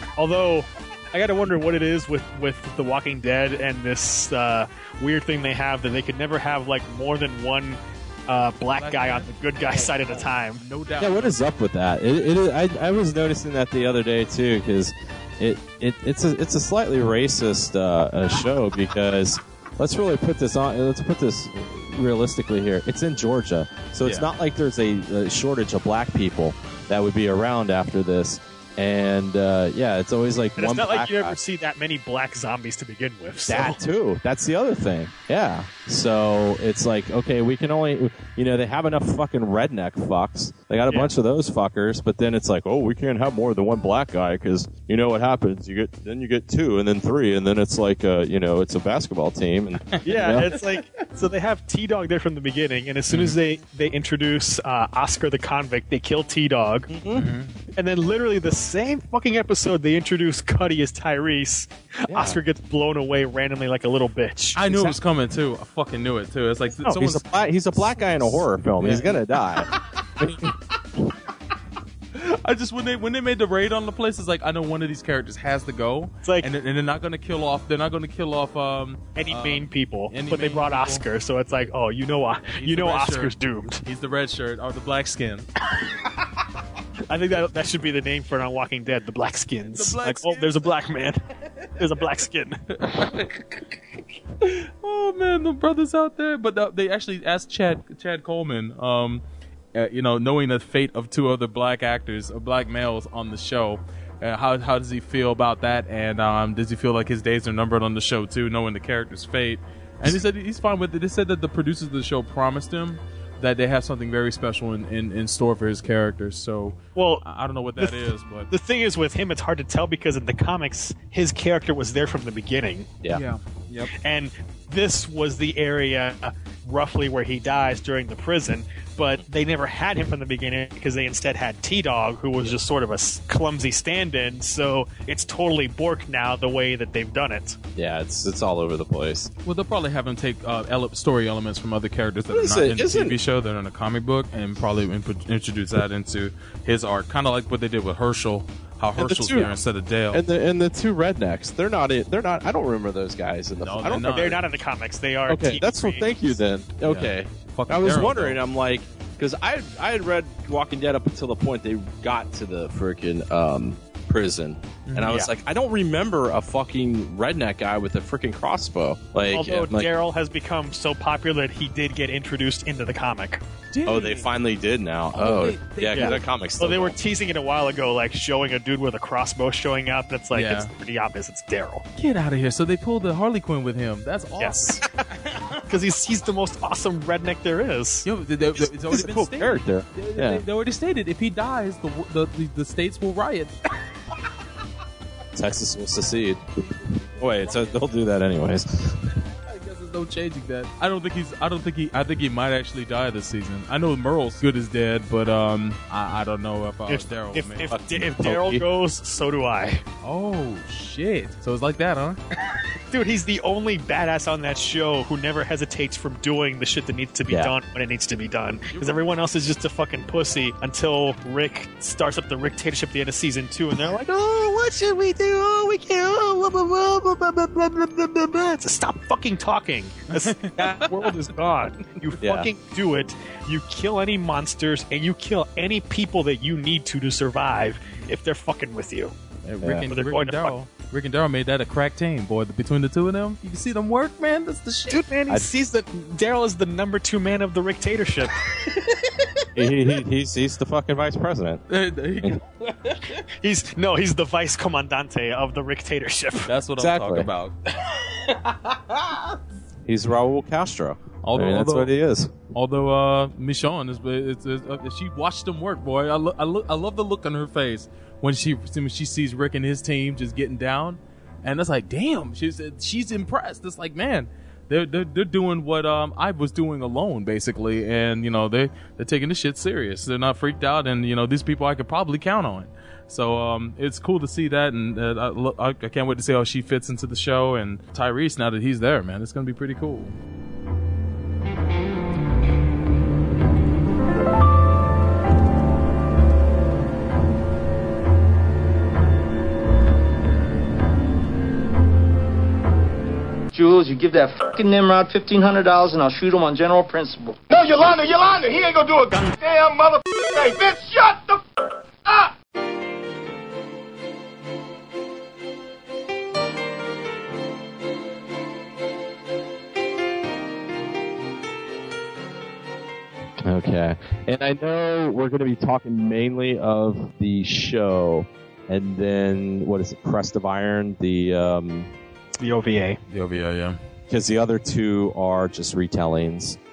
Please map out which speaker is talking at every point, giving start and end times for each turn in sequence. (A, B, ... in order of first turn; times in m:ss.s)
0:00.2-0:10.6 A
0:08.8-0:11.4 B
0:11.0-0:31.4 C
0:30.6-0:33.8 A
0:33.5-0:50.5 C
0:40.9-0:41.1 A
0:49.9-0:51.0 B
0:50.0-0:56.9 A
0:53.1-0:53.4 B
0:56.9-0:57.3 C
0:57.1-0:57.5 B
0:57.8-1:05.0 A
1:02.1-1:02.4 C
1:04.6-1:07.2 B
1:06.8-1:11.0 C
1:07.9-1:09.2 B
1:12.1-1:21.0 B
1:19.2-1:23.8 A
1:22.4-1:25.5 B
1:27.1-1:31.2 A
1:29.7-1:30.7 B
1:31.8-1:32.6 A
1:32.7-1:33.8 B
1:34.4-1:39.2 B
1:39.7-1:58.5 B
1:57.0-1:57.2 A
1:57.8-2:02.9 A
2:03.1-2:03.9 B
2:03.9-2:17.6 A
2:17.8-2:19.3 C
2:19.4-2:30.2 B
2:22.3-2:23.2 C
2:29.0-2:29.5 C
2:30.1-2:34.4 C
2:33.6-2:34.4 B
2:34.1-2:36.2 A
2:35.3-2:49.9 C
2:36.8-2:38.4 B
2:44.9-2:45.2 B
2:49.3-2:53.4 A
2:53.7-2:54.3 B
2:53.8-2:57.0 C
2:55.1-2:56.2 B
2:55.9-3:01.8 A
3:00.3-3:00.7 B
3:02.0-3:05.6 B
3:04.4-3:04.8 A
3:05.7-3:08.0 A
3:08.0-3:13.5 B
3:08.5-3:10.4 C
3:15.3-3:19.0 C
3:16.8-3:17.9 B
3:19.2-3:27.7 B
3:26.9-3:29.8 A
3:27.7-3:28.6 C
3:30.0-3:32.2 B
3:32.9-3:59.1 A
3:37.3-3:37.5 C
3:38.7-3:39.0 B
3:50.2-3:51.0 B
3:52.2-3:52.5 C
3:59.4-4:05.0 B
3:59.9-4:00.5 A
4:04.9-4:08.4 A
4:08.7-4:09.1 B
4:09.6-4:11.6 C
4:11.7-4:13.2 B
4:13.4-4:16.5 A
4:16.4-4:19.3 B
4:16.8-4:17.3 C
4:19.8-4:22.3 C
4:21.2-4:21.9 B
4:22.5-4:50.2 B
5:03.5-5:07.4 D
5:07.5-5:12.3 E
5:23.4-5:31.9 C
5:32.4-5:33.0 A
5:33.1-5:33.8 B
5:34.1-5:36.6 C